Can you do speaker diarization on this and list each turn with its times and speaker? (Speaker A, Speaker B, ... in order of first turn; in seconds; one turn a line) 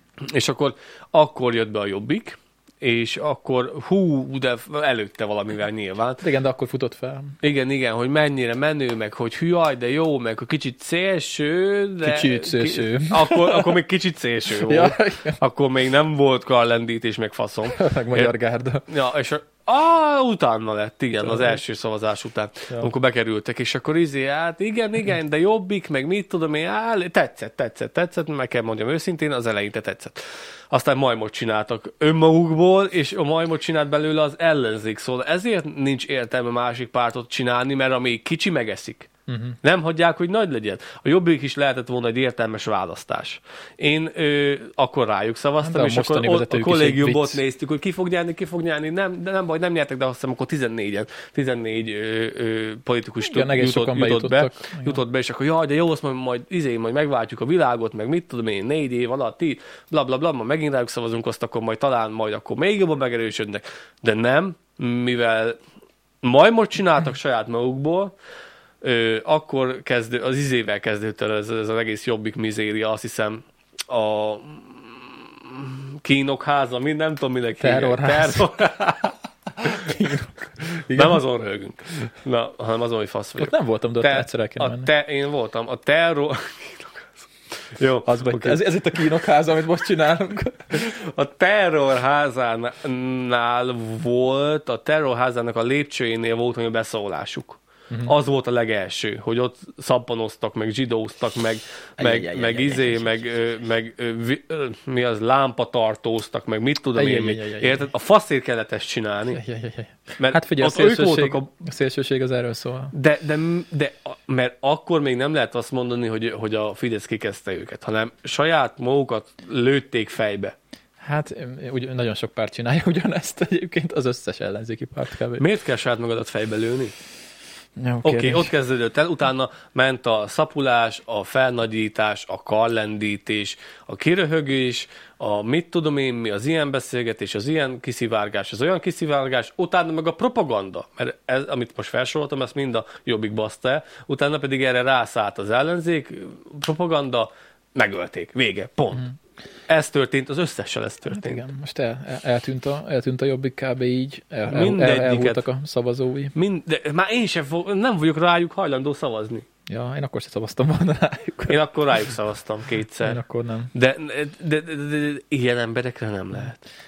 Speaker A: 0.2-6.2
Speaker B: 6.2-7.3
Speaker A: 7.4-18.3
Speaker B: 12.0-13.8
Speaker B: 14.5-15.4
Speaker B: 17.7-18.8
Speaker A: 18.9-39.1
Speaker B: 21.2-21.6
Speaker B: 39.3-39.6
Speaker A: 39.6-65.6
Speaker B: 45.6-47.4
Speaker B: 53.2-55.0
Speaker A: 66.2-68.1
Speaker A: 68.8-79.9
Speaker B: 77.6-78.5
Speaker B: 79.6-81.2
Speaker A: 80.6-88.6
Speaker B: 83.4-84.9
Speaker B: 88.0-90.9
Speaker A: 90.7-109.4
Speaker B: 102.0-103.1
Speaker B: 106.9-107.9
Speaker B: 109.3-112.9
Speaker A: 110.2-111.5
Speaker A: 112.9-120.5
Speaker B: 121.0-125.4
Speaker A: 125.4-126.9
Speaker B: 127.8-128.5
Speaker A: 128.0-149.1
Speaker A: 149.7-151.4
Speaker B: 151.1-156.3
Speaker A: 154.5-155.4
Speaker A: 156.3-159.4
Speaker B: 159.7-161.6
Speaker A: 161.5-163.2
Speaker B: 163.0-163.7
Speaker A: 163.7-166.6